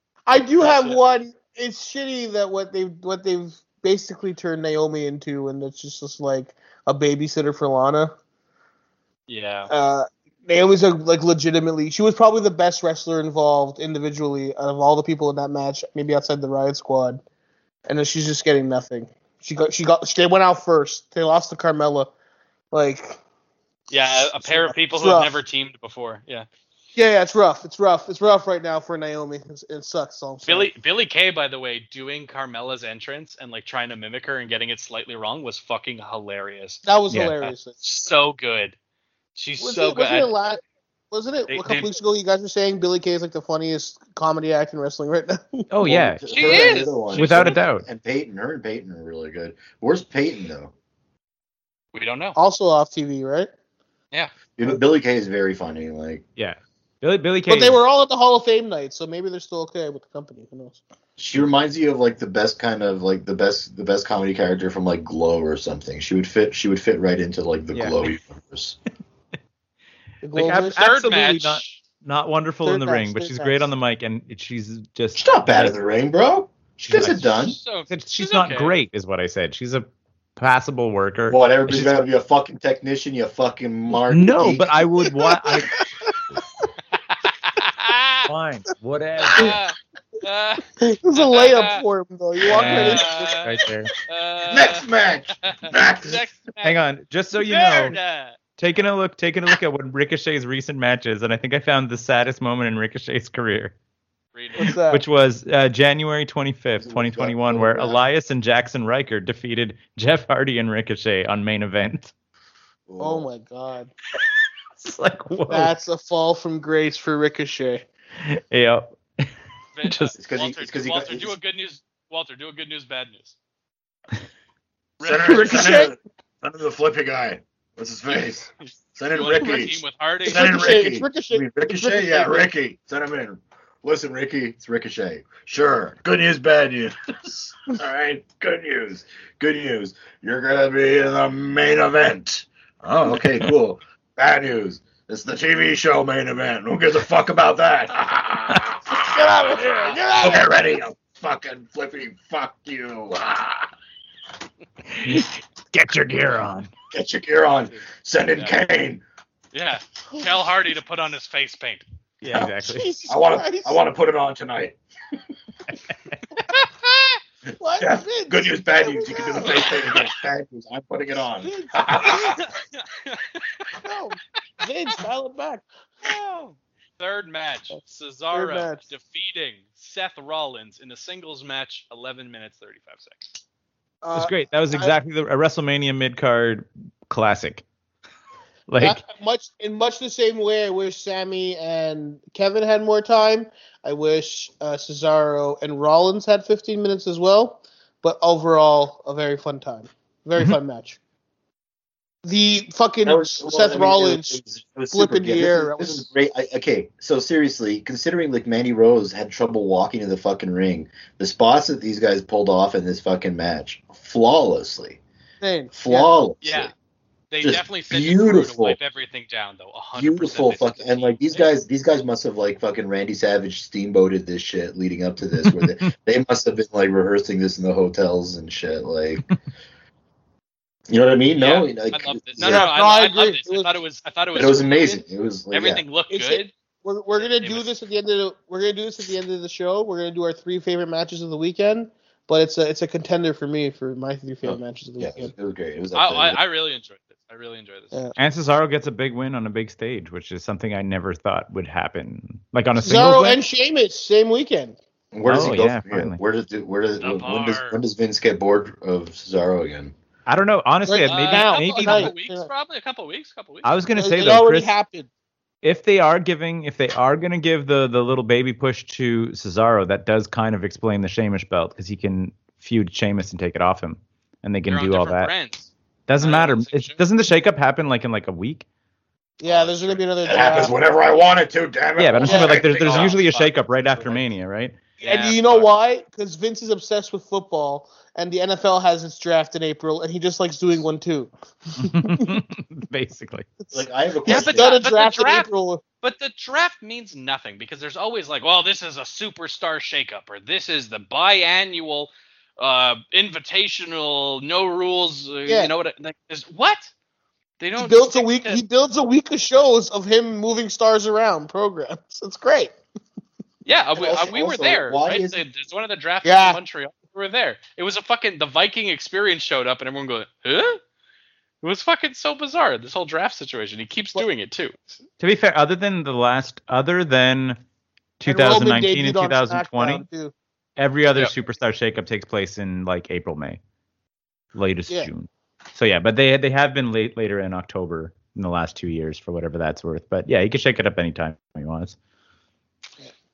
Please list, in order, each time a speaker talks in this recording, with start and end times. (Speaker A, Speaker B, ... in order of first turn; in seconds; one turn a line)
Speaker A: 0.3-8.1
Speaker B: 0.6-1.0
Speaker B: 9.3-9.7
Speaker A: 9.7-17.2
Speaker A: 17.9-22.1
Speaker A: 22.7-23.2
Speaker B: 23.9-26.5
Speaker A: 24.1-25.3
Speaker A: 26.9-30.7
Speaker B: 30.4-36.8
Speaker A: 36.8-37.8
Speaker C: 37.1-37.5
Speaker B: 37.8-38.7
Speaker B: 39.4-40.3
Speaker A: 39.6-45.7
Speaker B: 41.5-41.9
Speaker C: 45.7-47.8
Speaker D: 45.8-50.7
Speaker B: 46.3-47.6
Speaker B: 51.9-52.4
Speaker A: 52.4-53.5
Speaker D: 54.6-56.2
Speaker C: 56.4-57.8
Speaker A: 57.5-60.8
Speaker D: 61.2-68.8
Speaker C: 67.7-68.1
Speaker A: 70.2-70.8
Speaker C: 70.3-75.7
Speaker B: 70.8-71.8
Speaker A: 72.6-73.7
Speaker D: 75.2-77.6
Speaker C: 76.9-77.3
Speaker B: 77.2-78.8
Speaker C: 77.9-82.0
Speaker D: 81.3-84.9
Speaker C: 84.1-85.8
Speaker A: 85.2-86.6
Speaker B: 87.1-88.3
Speaker C: 88.3-89.5
Speaker B: 89.3-91.8
Speaker A: 90.8-93.5
Speaker B: 92.5-94.8
Speaker C: 92.5-93.9
Speaker D: 94.5-96.2
Speaker B: 95.4-98.4
Speaker C: 96.6-98.0
Speaker C: 98.6-103.7
Speaker B: 104.3-104.7
Speaker A: 104.6-105.0
Speaker C: 104.9-112.1
Speaker D: 106.8-108.0
Speaker D: 112.9-113.3
Speaker A: 113.0-113.9
Speaker C: 114.8-115.7
Speaker A: 115.5-117.8
Speaker C: 118.2-119.3
Speaker B: 119.8-123.3
Speaker C: 119.8-120.1
Speaker D: 120.2-121.3
Speaker B: 125.0-125.6
Speaker D: 125.0-149.6
Speaker A: 125.2-126.0
Speaker B: 128.1-130.7
Speaker A: 130.2-132.5
Speaker A: 148.9-150.5
Speaker B: 149.6-150.0
Speaker D: 150.2-153.7
Speaker C: 154.9-156.7
Speaker D: 156.9-159.0
Speaker B: 157.5-158.6
Speaker B: 159.5-161.8
Speaker A: 160.1-160.3
Speaker C: 162.2-162.9
Speaker D: 162.3-164.8
Speaker A: 162.7-163.8
Speaker C: 165.7-166.2
Speaker B: 166.5-167.2
Speaker A: 167.6-169.7
Speaker D: 167.8-172.4
Speaker A: 171.4-172.3
Speaker B: 172.1-173.7
Speaker A: 173.8-175.7
Speaker B: 176.0-183.2
Speaker A: 178.3-178.8
Speaker A: 184.0-184.9
Speaker C: 184.1-187.6
Speaker C: 188.7-189.0
Speaker A: 188.8-201.0
Speaker A: 202.2-206.1
Speaker D: 203.0-215.0
Speaker A: 215.4-216.1
Speaker D: 215.7-216.7
Speaker B: 216.4-216.7
Speaker B: 217.3-221.5
Speaker D: 217.4-218.8
Speaker D: 219.9-229.2
Speaker C: 225.4-225.7
Speaker D: 230.9-232.7
Speaker B: 231.4-236.5
Speaker A: 232.4-233.7
Speaker D: 234.3-235.8
Speaker A: 236.1-245.3
Speaker B: 237.2-237.7
Speaker D: 244.4-246.4
Speaker B: 245.9-248.0
Speaker C: 248.2-253.4
Speaker A: 252.8-254.8
Speaker D: 255.1-259.9
Speaker C: 255.3-256.2
Speaker B: 257.0-257.8
Speaker C: 260.3-262.1
Speaker A: 260.9-262.5
Speaker B: 261.1-263.7
Speaker C: 263.6-264.7
Speaker A: 263.9-265.1
Speaker C: 265.6-275.3
Speaker B: 274.7-277.0
Speaker C: 276.1-278.6
Speaker A: 279.4-280.7
Speaker B: 279.4-280.7
Speaker D: 280.2-283.2
Speaker C: 282.0-284.8
Speaker A: 282.2-282.5
Speaker B: 282.4-283.5
Speaker B: 285.0-285.7
Speaker A: 285.0-292.3
Speaker C: 291.8-293.6
Speaker D: 293.7-294.7
Speaker B: 294.2-295.5
Speaker A: 294.2-295.8
Speaker B: 296.0-306.9
Speaker A: 305.4-305.7
Speaker B: 307.6-308.6
Speaker A: 307.8-312.7
Speaker B: 313.6-320.8
Speaker D: 313.9-315.4
Speaker A: 316.2-316.6
Speaker B: 321.6-325.0
Speaker C: 325.2-327.6
Speaker C: 328.2-330.0
Speaker A: 328.2-330.3
Speaker C: 330.8-333.6
Speaker C: 334.5-341.9